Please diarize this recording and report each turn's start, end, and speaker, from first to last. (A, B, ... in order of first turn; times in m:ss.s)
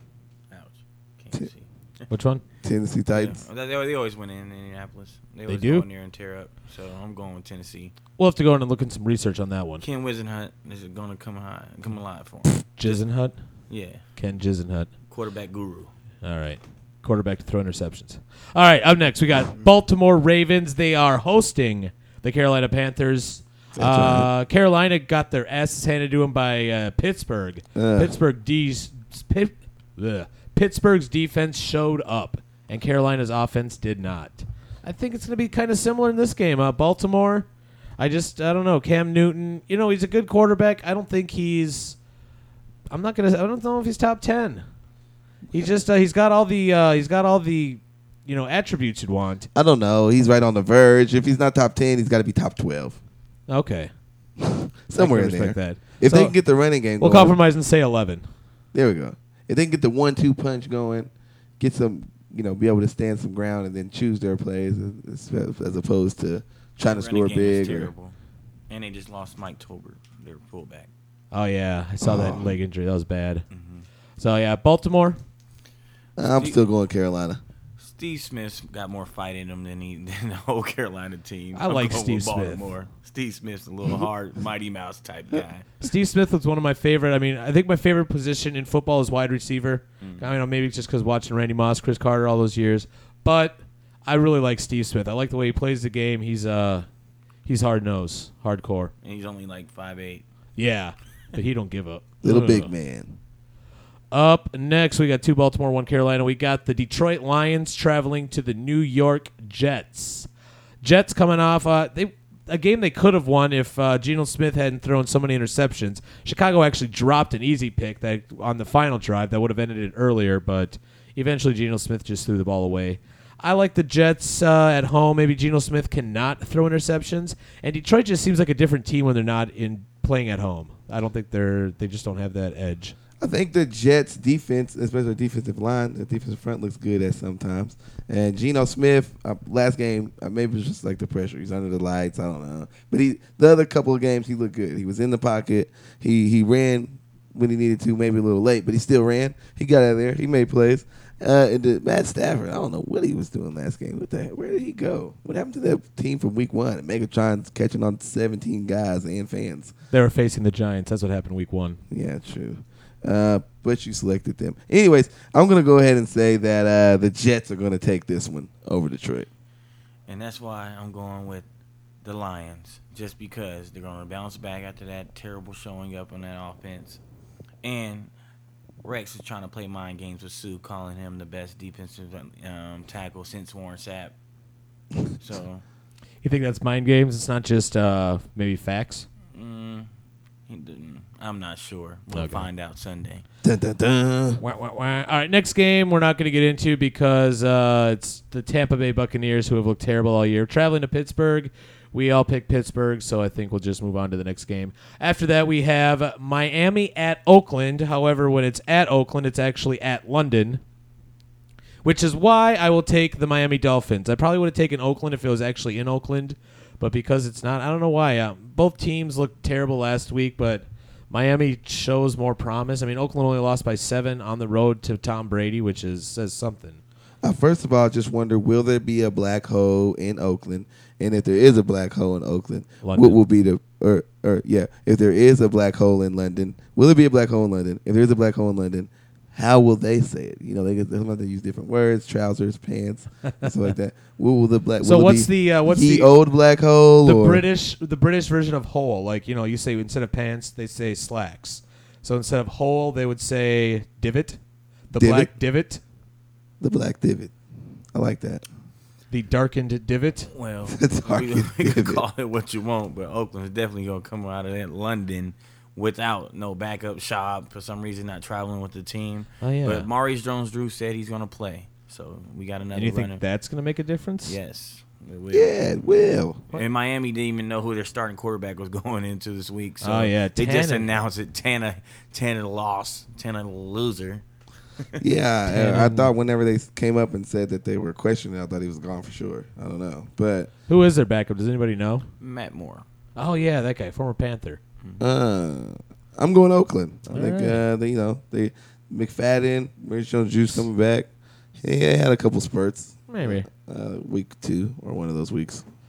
0:00.5-0:02.1 A
0:02.1-0:02.4 B
0:02.6-0:03.4 C
0:03.1-0:07.9 A
0:05.5-0:05.8 B
0:08.2-0:09.8 B
0:09.8-0:13.0 A
0:12.6-0:13.3 B
0:13.7-0:14.0 A
0:14.2-0:14.9 B
0:15.1-0:15.9 A
0:16.2-0:37.5 B
0:23.7-0:24.3 C
0:27.7-0:28.1 C
0:38.0-0:42.0 B
0:42.9-0:44.6 B
0:45.5-0:49.5 B
0:49.5-0:53.0 C
0:53.5-0:53.9 B
0:54.4-0:57.4 C
0:55.0-0:56.3 B
0:57.0-0:58.2 B
0:58.7-1:07.9 C
1:06.8-1:08.1 A
1:08.7-1:10.9 A
1:11.3-1:13.4 B
1:12.0-1:12.5 C
1:13.5-1:13.9 A
1:14.2-1:15.2 B
1:16.2-1:17.4 C
1:16.2-1:16.6 A
1:17.8-1:25.7 A
1:21.5-1:22.6 B
1:25.8-1:36.8 B
1:30.0-1:30.3 A
1:37.4-1:38.9 B
1:39.0-1:40.2 A
1:40.6-1:42.7 B
1:42.2-1:43.2 C
1:44.1-1:50.3 B
1:50.8-2:12.9 B
2:13.2-2:39.7 C
2:39.9-2:41.8 B
2:41.9-2:49.3 C
2:50.1-2:51.4 A
2:52.0-2:57.0 A
2:57.6-2:58.1 A
2:58.8-3:04.1 A
3:05.1-3:05.6 A
3:06.2-3:09.0 B
3:09.3-3:09.9 A
3:10.5-3:13.2 A
3:12.1-3:12.5 B
3:13.4-3:14.4 C
3:14.4-3:30.6 B
3:31.8-3:46.8 B
3:47.2-4:07.4 C
3:52.8-3:53.2 B
4:04.8-4:06.1 B
4:07.0-4:14.4 B
4:14.9-4:15.8 B
4:14.9-4:15.3 C
4:16.6-4:17.3 C
4:17.9-4:18.4 C
4:19.1-4:20.3 B
4:20.3-4:33.2 A
4:20.7-4:22.0 C
4:29.4-4:29.9 B
4:32.7-4:34.4 B
4:34.2-4:35.6 A
4:35.3-4:36.5 C
4:36.5-4:44.2 A
4:39.8-4:41.0 B
4:45.0-4:50.5 C
4:45.5-4:46.1 B
4:50.7-4:52.0 B
4:52.2-4:52.8 A
4:53.2-4:54.6 B
4:55.0-5:01.1 C
4:57.1-4:57.6 B
5:01.6-5:05.6 C
5:03.1-5:03.5 B